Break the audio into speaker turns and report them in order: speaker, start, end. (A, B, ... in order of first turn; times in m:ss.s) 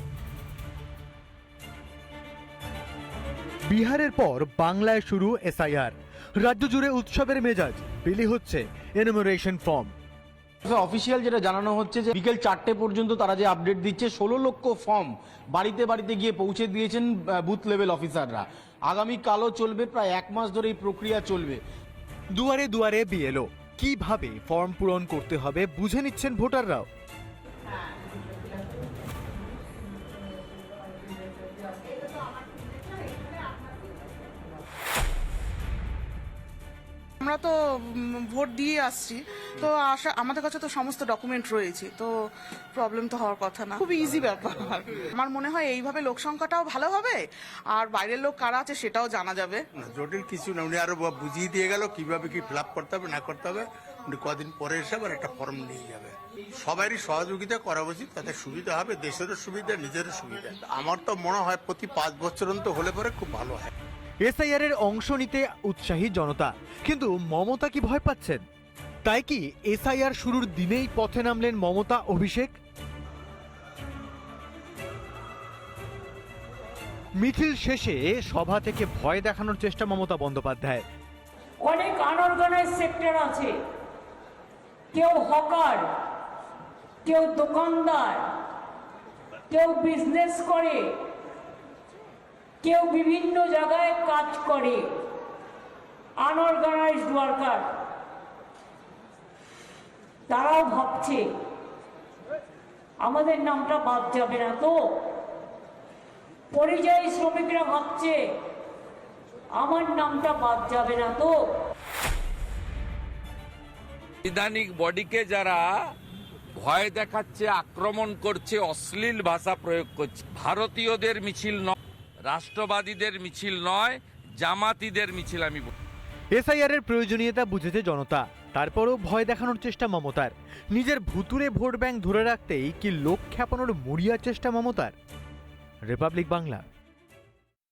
0:03.7-0:09.9 A
0:10.6-0:21.6 B
0:22.3-0:26.9 A
0:37.2-0:42.1 C
0:42.7-0:47.2 C
0:47.7-0:49.6 C
0:49.7-1:03.7 D
1:04.2-1:08.4 A
1:09.0-1:12.6 A
1:17.2-1:20.8 A
1:21.6-1:23.6 E
1:24.9-1:25.9 E
1:27.0-1:28.3 E
1:29.5-1:30.9 E
1:32.6-1:34.9 E
1:36.2-1:37.7 E
1:40.3-1:41.3 E
1:43.0-1:45.0 E
1:46.5-1:48.2 E
1:49.6-1:51.4 E
1:54.2-1:55.9 F
1:56.5-2:05.7 F
2:06.3-2:14.9 A
2:15.9-2:16.6 A